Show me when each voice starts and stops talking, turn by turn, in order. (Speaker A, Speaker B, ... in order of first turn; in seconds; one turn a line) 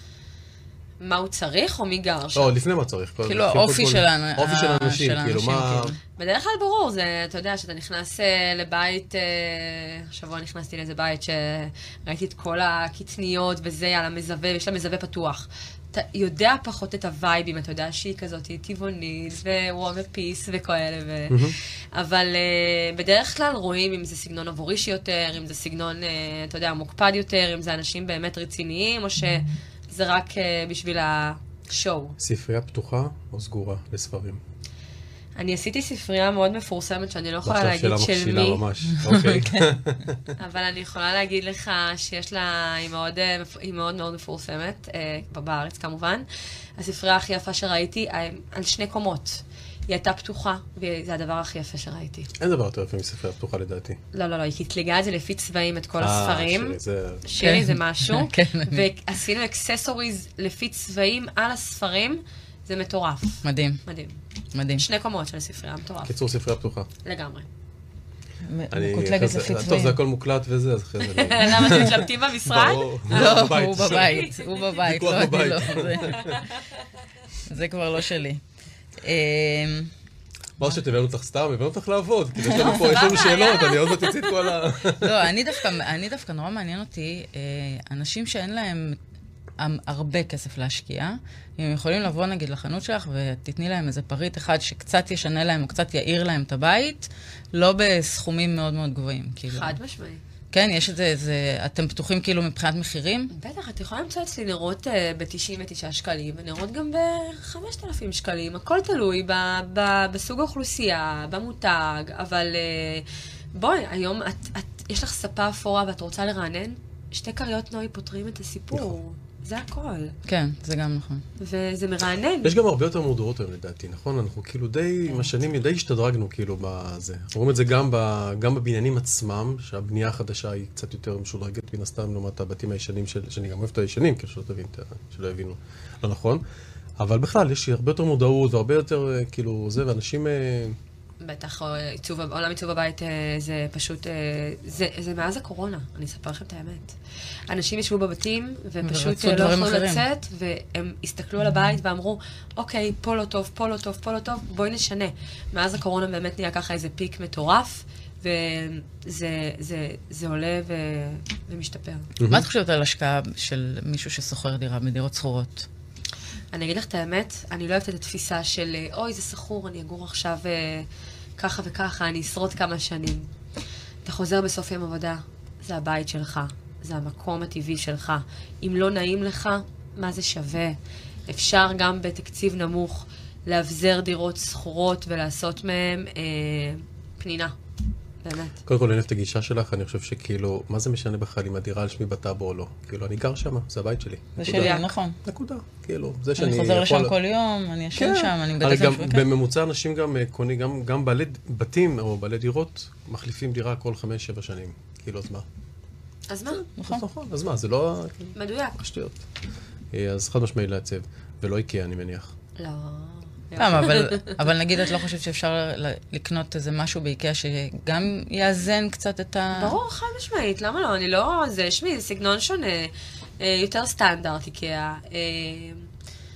Speaker A: 1.0-2.5
Speaker B: 2.4-6.0
Speaker C: 3.2-6.0
Speaker A: 6.2-32.2
Speaker B: 21.3-21.6
Speaker B: 32.2-34.4
Speaker A: 35.4-38.6
Speaker B: 37.4-40.3
Speaker C: 39.0-39.7
Speaker A: 40.4-46.3
Speaker A: 46.8-52.3
Speaker B: 52.4-54.0
Speaker A: 54.1-64.2
Speaker B: 56.0-57.2
Speaker C: 57.4-58.9
Speaker C: 63.4-63.8
Speaker C: 64.5-64.8
Speaker A: 64.8-66.2
Speaker B: 66.1-66.9
Speaker A: 67.0-67.5
Speaker C: 68.5-70.0
Speaker B: 68.7-76.4
Speaker A: 71.0-74.7
Speaker C: 73.1-76.3
Speaker A: 76.2-76.7
Speaker C: 77.5-78.4
Speaker C: 79.0-79.9
Speaker B: 80.6-85.3
Speaker A: 82.5-84.3
Speaker C: 82.6-83.2
Speaker C: 85.0-89.0
Speaker C: 89.6-99.8
Speaker A: 99.5-100.2
Speaker C: 100.5-103.3
Speaker A: 103.3-120.2
Speaker C: 120.3-121.2
Speaker A: 121.4-122.5
Speaker B: 122.4-136.4
Speaker B: 137.0-140.8
Speaker A: 141.2-147.0
Speaker A: 147.5-162.1
Speaker C: 148.8-150.0
Speaker B: 162.2-162.5
Speaker C: 162.3-165.7
Speaker A: 166.5-173.3
Speaker A: 174.1-180.8
Speaker A: 181.3-187.6
Speaker A: 188.2-188.6
Speaker B: 188.7-197.1
Speaker C: 194.4-195.2
Speaker A: 194.4-194.9
Speaker C: 196.4-199.3
Speaker B: 197.9-205.5
Speaker A: 206.3-206.6
Speaker B: 206.6-209.2
Speaker C: 206.8-207.0
Speaker A: 208.3-208.8
Speaker B: 209.9-212.3
Speaker A: 212.6-215.0
Speaker C: 213.6-219.8
Speaker A: 219.5-225.9